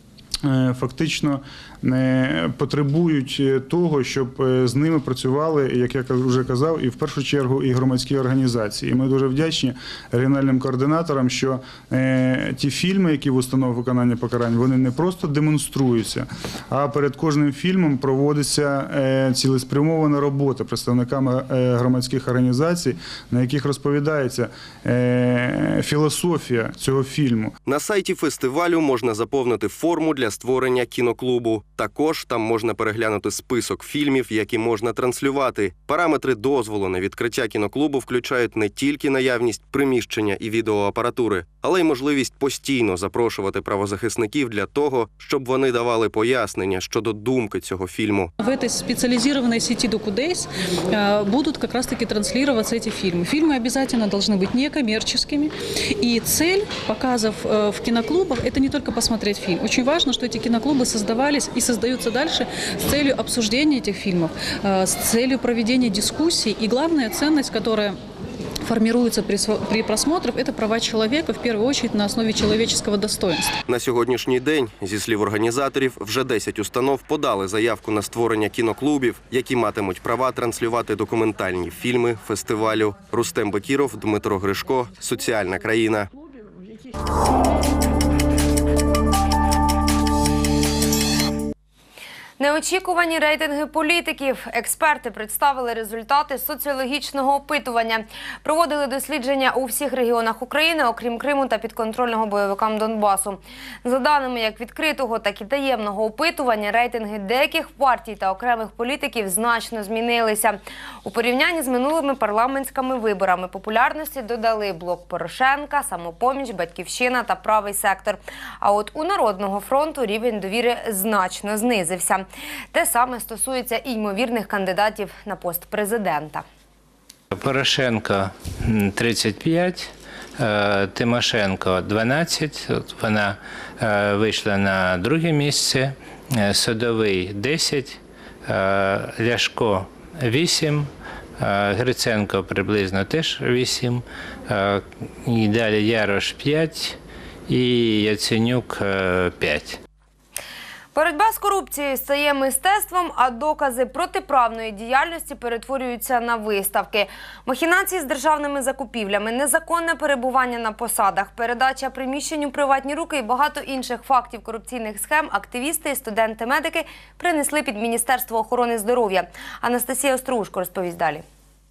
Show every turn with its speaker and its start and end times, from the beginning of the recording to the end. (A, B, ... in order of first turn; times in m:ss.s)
0:00.4-0:27.5 A
0:27.6-0:48.3 B
0:48.4-1:08.0 C
1:08.6-1:13.5 C
1:13.7-1:26.1 B
1:32.4-2:06.4 D
2:07.3-2:29.8 E
2:30.9-2:51.2 D